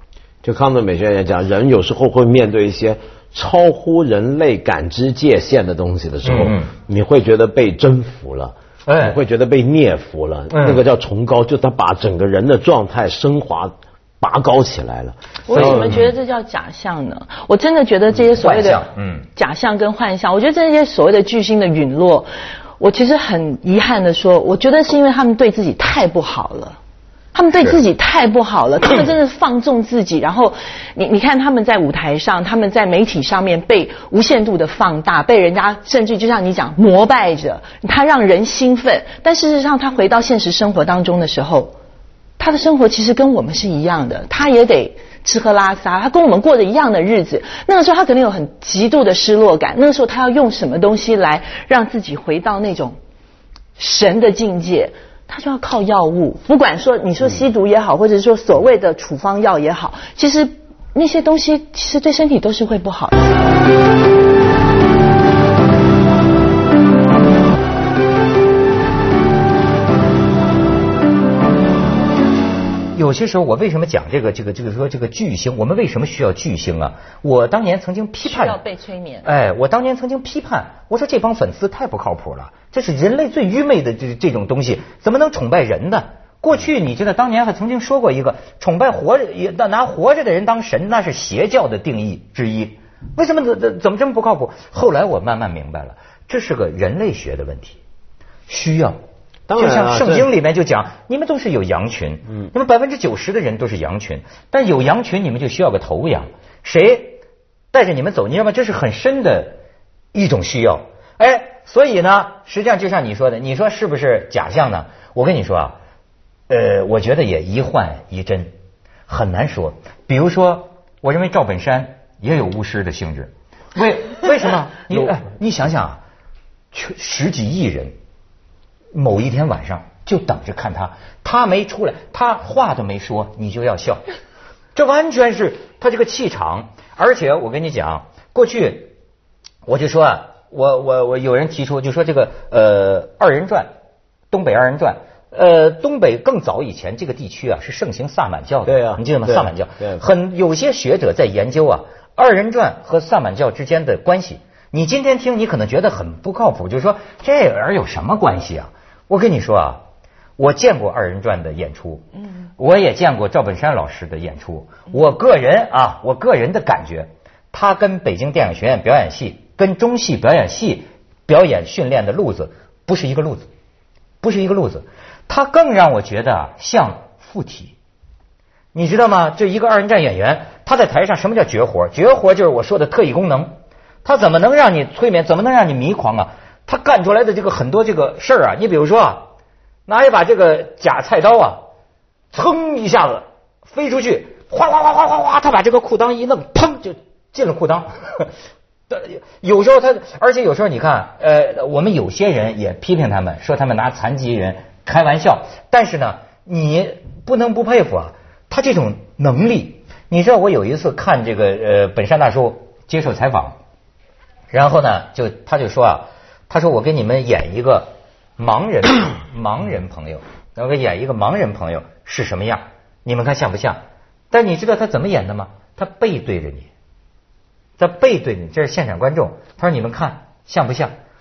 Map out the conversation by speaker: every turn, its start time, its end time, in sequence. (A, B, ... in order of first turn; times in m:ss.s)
0:00.4-0:16.0 A
0:06.2-0:06.7 B
0:08.9-0:09.2 B
0:10.5-0:10.8 B
0:15.5-0:18.8 C
0:15.5-0:16.1 B
0:18.4-0:19.3 B
0:19.4-0:26.8 C
0:27.3-0:41.7 C
0:42.4-0:53.0 C
0:53.8-1:03.3 C
1:13.0-1:18.6 B
1:18.2-1:19.3 C
1:19.2-1:37.8 B
1:38.5-1:39.0 B
1:39.5-1:40.3 A
1:39.6-1:47.2 B
1:47.7-1:49.6 B
1:50.1-1:55.8 B
1:56.5-1:58.5 B
1:59.1-2:06.0 B
2:06.7-2:07.9 B
2:08.9-2:14.1 B
2:14.8-2:18.9 B
2:19.7-2:23.7 B
2:24.3-2:39.8 B
2:28.7-2:30.0 A
2:40.4-2:42.1 B
2:42.6-2:53.5 B
2:54.2-2:57.8 B
2:58.7-3:03.5 B
3:04.0-3:09.3 B
3:09.9-3:11.6 B
3:12.3-3:18.3 B
3:18.9-3:33.6 B
3:34.5-3:46.7 B
3:47.8-3:50.9 B